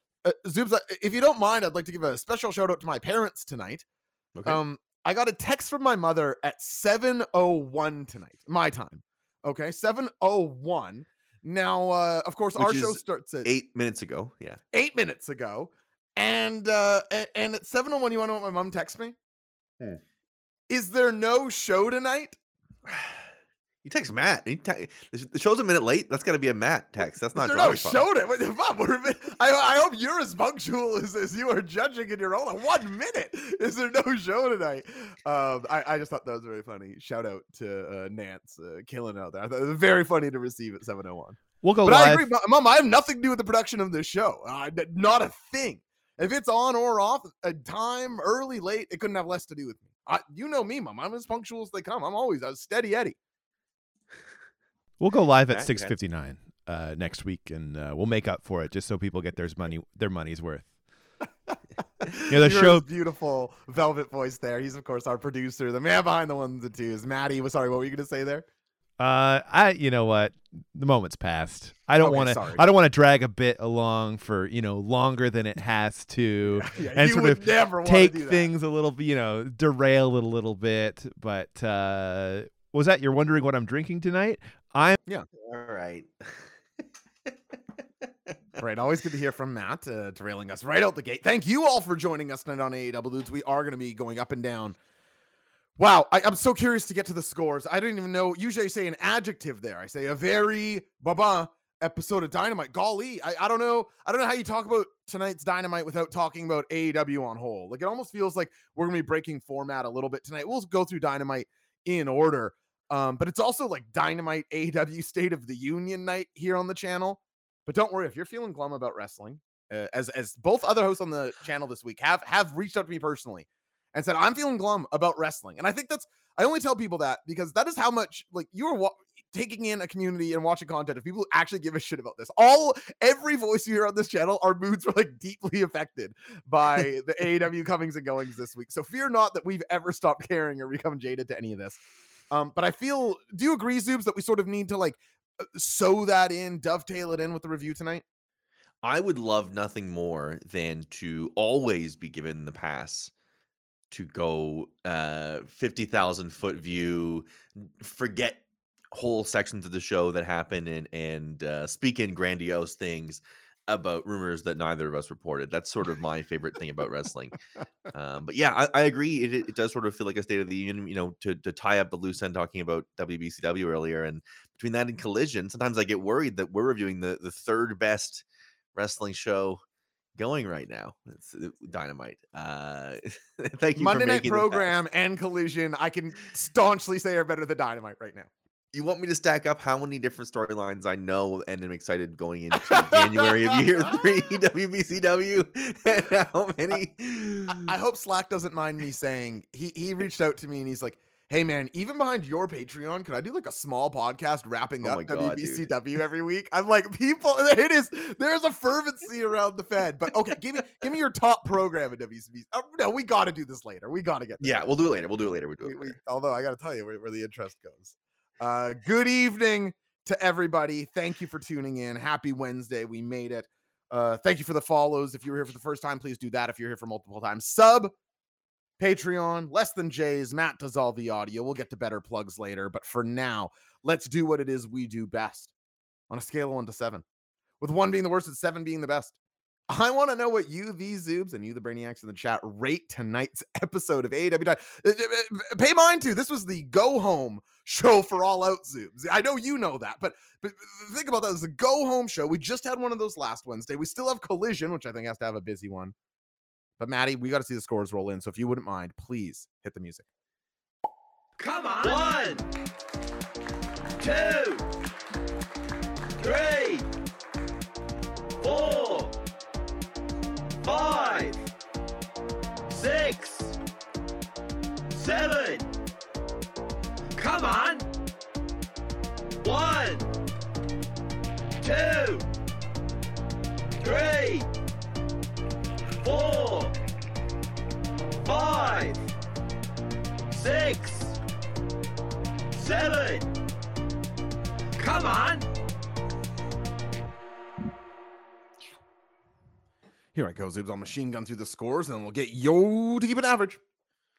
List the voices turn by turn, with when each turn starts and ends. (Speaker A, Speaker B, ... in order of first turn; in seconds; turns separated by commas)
Speaker A: 0.2-3.8, Speaker B: 4.3-4.6, Speaker A: 4.5-13.5, Speaker B: 12.6-14.6, Speaker A: 14.7-19.2, Speaker A: 20.7-22.4, Speaker B: 22.9-23.3, Speaker B: 23.8-28.0, Speaker A: 27.4-53.2, Speaker C: 41.6-42.3, Speaker C: 55.0-60.7, Speaker B: 55.5-56.0, Speaker A: 62.0-68.5, Speaker C: 62.3-62.8, Speaker C: 69.0-85.0, Speaker A: 72.0-72.7, Speaker A: 76.6-78.5, Speaker B: 85.4-86.5, Speaker B: 87.3-88.3, Speaker A: 88.6-94.8, Speaker A: 95.8-141.8, Speaker A: 142.3-145.0, Speaker A: 145.6-148.0, Speaker B: 148.8-153.1, Speaker B: 153.9-167.4, Speaker B: 167.9-179.6, Speaker B: 180.2-184.7, Speaker A: 183.8-188.3, Speaker B: 188.7-197.7, Speaker A: 192.6-193.6, Speaker A: 197.5-214.8, Speaker B: 204.8-205.7, Speaker B: 214.4-216.0, Speaker A: 215.6-227.9, Speaker A: 228.8-235.5, Speaker A: 236.1-237.0, Speaker A: 237.6-239.2, Speaker A: 239.7-255.9, Speaker A: 256.8-260.1, Speaker D: 261.4-262.4, Speaker B: 261.8-262.4, Speaker D: 264.0-264.6, Speaker D: 266.2-266.8, Speaker B: 268.4-269.1, Speaker D: 268.5-269.0, Speaker B: 270.6-271.3, Speaker D: 270.7-271.3, Speaker D: 272.7-273.5, Speaker D: 275.0-275.6, Speaker D: 277.2-277.9, Speaker D: 279.4-280.0, Speaker D: 281.6-282.2, Speaker D: 283.8-284.4, Speaker D: 286.0-286.7, Speaker D: 288.2-289.0, Speaker D: 290.3-291.2, Speaker D: 292.6-293.2, Speaker D: 294.8-295.4, Speaker A: 300.1-303.6